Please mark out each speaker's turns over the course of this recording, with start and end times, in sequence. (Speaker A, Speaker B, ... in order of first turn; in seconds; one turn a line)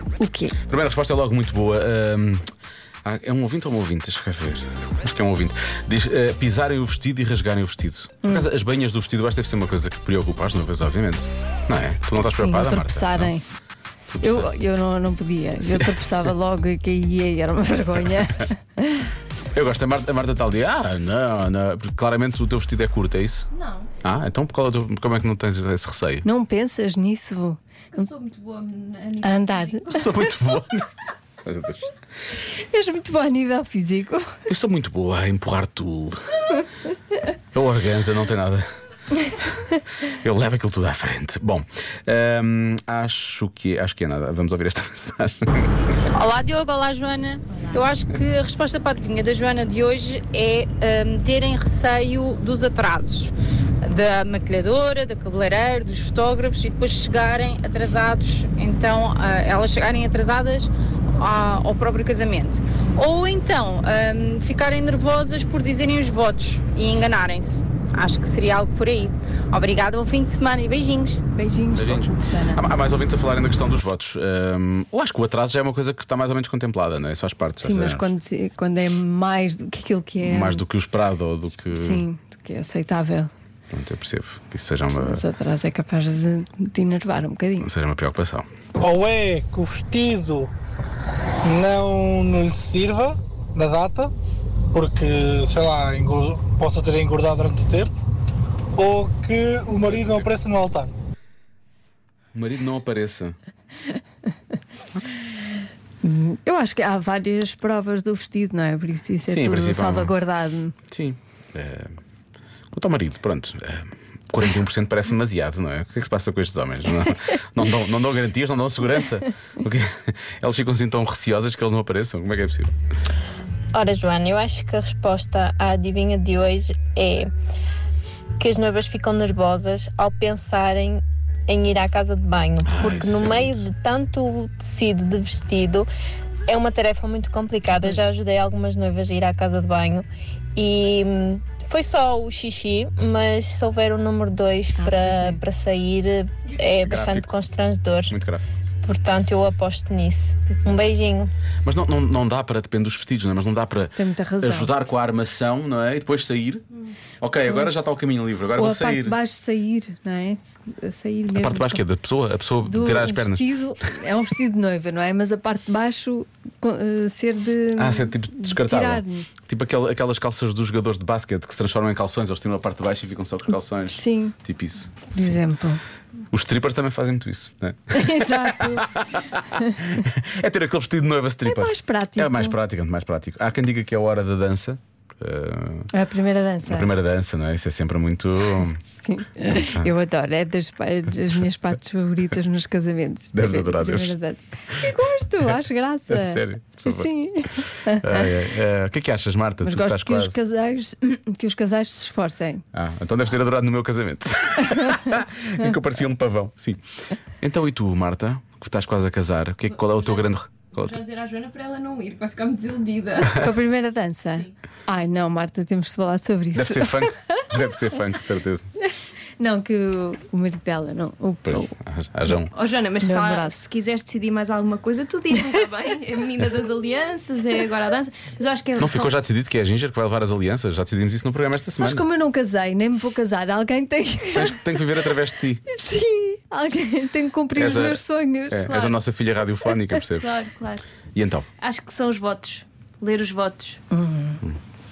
Speaker A: 0.2-0.6
Speaker B: 0.7-2.5
Speaker B: 3.0-13.3
Speaker A: 12.2-13.4
Speaker B: 14.1-14.5
Speaker A: 14.2-19.1
Speaker B: 15.6-16.3
Speaker B: 19.5-23.5
Speaker C: 23.5-23.9
Speaker B: 24.0-26.3
Speaker A: 26.2-28.1
Speaker C: 27.9-30.1
Speaker A: 29.2-30.1
Speaker B: 29.9-30.9
Speaker B: 31.4-31.9
Speaker A: 32.5-34.3
Speaker B: 34.5-36.2
Speaker B: 37.5-38.7
Speaker B: 39.3-45.9
Speaker D: 46.1-53.3
Speaker D: 53.8-71.2
Speaker A: 62.7-63.0
Speaker A: 71.3-72.6
Speaker B: 71.7-78.1
Speaker A: 77.6-80.6
Speaker B: 80.2-82.1
Speaker A: 81.7-83.3
Speaker B: 83.7-85.2
Speaker A: 84.9-87.7
Speaker B: 87.6-88.5
Speaker E: 88.8-90.5
Speaker E: 91.4-94.1
Speaker E: 94.7-97.9
Speaker E: 98.8-100.9
Speaker B: 99.8-100.3
Speaker B: 102.3-103.4
Speaker A: 106.0-110.8
Speaker B: 109.3-110.2
Speaker B: 110.9-112.0
Speaker B: 112.7-122.8
Speaker F: 123.7-127.3
Speaker F: 128.4-135.9
Speaker B: 132.7-133.7
Speaker F: 136.5-148.1
Speaker A: 144.8-145.4
Speaker B: 146.7-147.3
Speaker B: 148.1-148.4
Speaker F: 148.8-151.3
Speaker B: 151.6-156.6
Speaker A: 154.0-154.7
Speaker B: 157.2-159.2
Speaker A: 158.6-161.8
Speaker B: 161.3-163.5
Speaker A: 162.7-169.3
Speaker B: 167.8-175.4
Speaker A: 173.9-174.4
Speaker A: 175.1-175.8
Speaker B: 176.3-185.9
Speaker A: 177.9-178.9
Speaker A: 181.4-182.6
Speaker A: 185.9-186.9
Speaker B: 186.7-188.8
Speaker A: 188.9-198.3
Speaker B: 189.5-189.9
Speaker B: 193.3-194.2
Speaker B: 196.1-197.1
Speaker B: 197.9-200.4
Speaker A: 199.6-202.6
Speaker B: 202.7-206.8
Speaker A: 204.7-205.0
Speaker B: 207.4-211.0
Speaker C: 210.8-213.4
Speaker A: 213.3-217.5
Speaker B: 216.5-218.7
Speaker A: 219.4-221.8
Speaker B: 221.4-222.5
Speaker C: 222.5-229.1
Speaker A: 223.0-223.6
Speaker B: 228.8-232.1
Speaker A: 231.8-234.8
Speaker B: 234.3-235.6
Speaker A: 235.7-238.7
Speaker B: 237.6-240.3
Speaker C: 238.7-239.0
Speaker C: 240.1-240.8
Speaker B: 241.2-241.5
Speaker C: 241.6-243.8
Speaker A: 243.9-244.4